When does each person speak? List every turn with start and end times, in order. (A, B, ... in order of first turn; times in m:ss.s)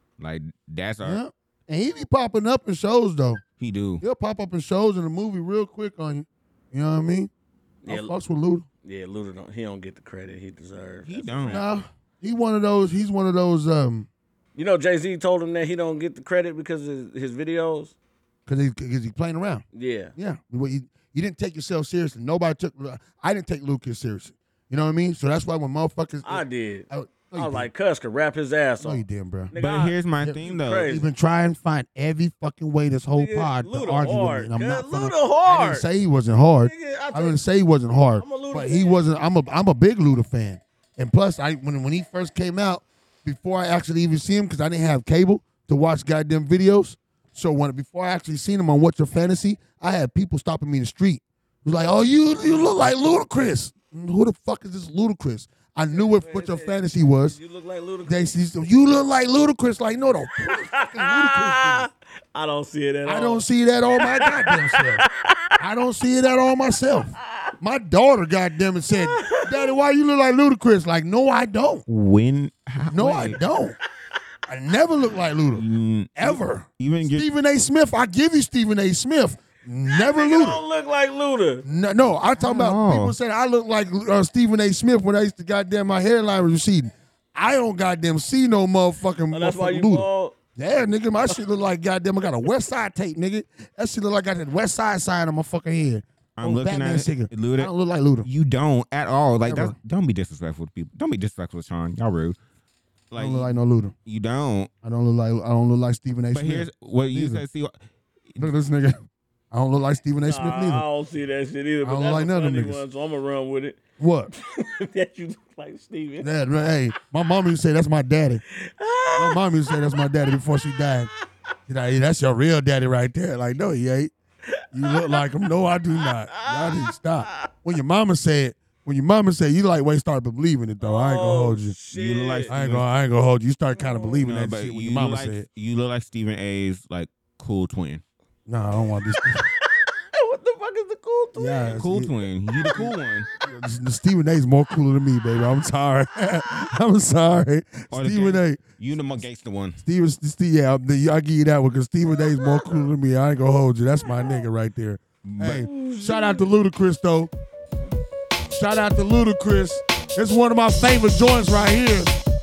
0:00.2-0:01.2 A
0:01.0-0:03.4 B
0:03.6-0:04.0 A
0:04.0-0:07.3 B
0:07.8-0:08.1 C
0:07.9-0:08.7 B
0:08.8-0:11.7 C
0:11.0-0:11.8 A
0:11.5-0:14.1 B
0:14.6-0:17.9 C
0:18.5-0:19.6 B
0:19.7-0:20.1 C
0:20.2-0:27.7 B
0:26.2-0:31.0 C
0:28.8-0:29.5 B
0:29.5-0:30.9 A
0:30.2-0:57.4 B
0:33.1-0:35.9 C
0:36.6-0:37.4 C
0:38.2-0:39.0 C
0:55.9-0:58.2 C
0:58.0-1:01.9 B
1:00.5-1:03.4 C
1:03.0-1:05.0 B
1:04.0-1:05.5 C
1:05.6-1:11.8 B
1:08.9-1:09.7 C
1:11.9-1:13.4 A
1:12.9-1:13.8 B
1:14.5-1:15.6 B
1:15.5-1:17.2 A
1:16.2-1:20.6 B
1:19.9-1:21.6 C
1:21.6-1:38.3 B
1:22.4-1:23.2 A
1:29.3-1:30.4 C
1:36.4-1:37.7 A
1:38.2-1:42.4 A
1:39.4-1:39.8 B
1:43.1-1:43.5 A
1:43.2-1:43.9 B
1:44.0-1:44.7 A
1:44.8-1:47.4 B
1:46.3-1:47.7 A
1:48.4-1:49.0 B
1:49.5-1:50.8 B
1:50.2-1:56.3 C
1:51.8-1:52.8 B
1:54.0-1:54.3 B
1:56.2-1:58.4 B
1:58.7-2:00.1 C
1:59.2-2:01.1 B
2:01.7-2:04.1 B
2:04.7-2:11.7 B
2:04.8-2:05.3 C
2:05.9-2:07.5 C
2:10.8-2:12.5 C
2:11.9-2:12.8 A
2:12.5-2:15.4 B
2:13.7-2:14.2 C
2:14.2-2:18.0 A
2:18.5-2:19.4 B
2:20.1-2:21.8 C
2:21.4-2:22.1 B
2:21.7-2:23.3 A
2:22.6-2:22.9 B
2:23.4-2:28.6 B
2:27.9-2:29.8 A
2:29.8-2:37.3 B
2:32.5-2:32.8 C
2:35.2-2:35.7 A
2:35.5-2:36.5 C
2:38.5-2:42.1 B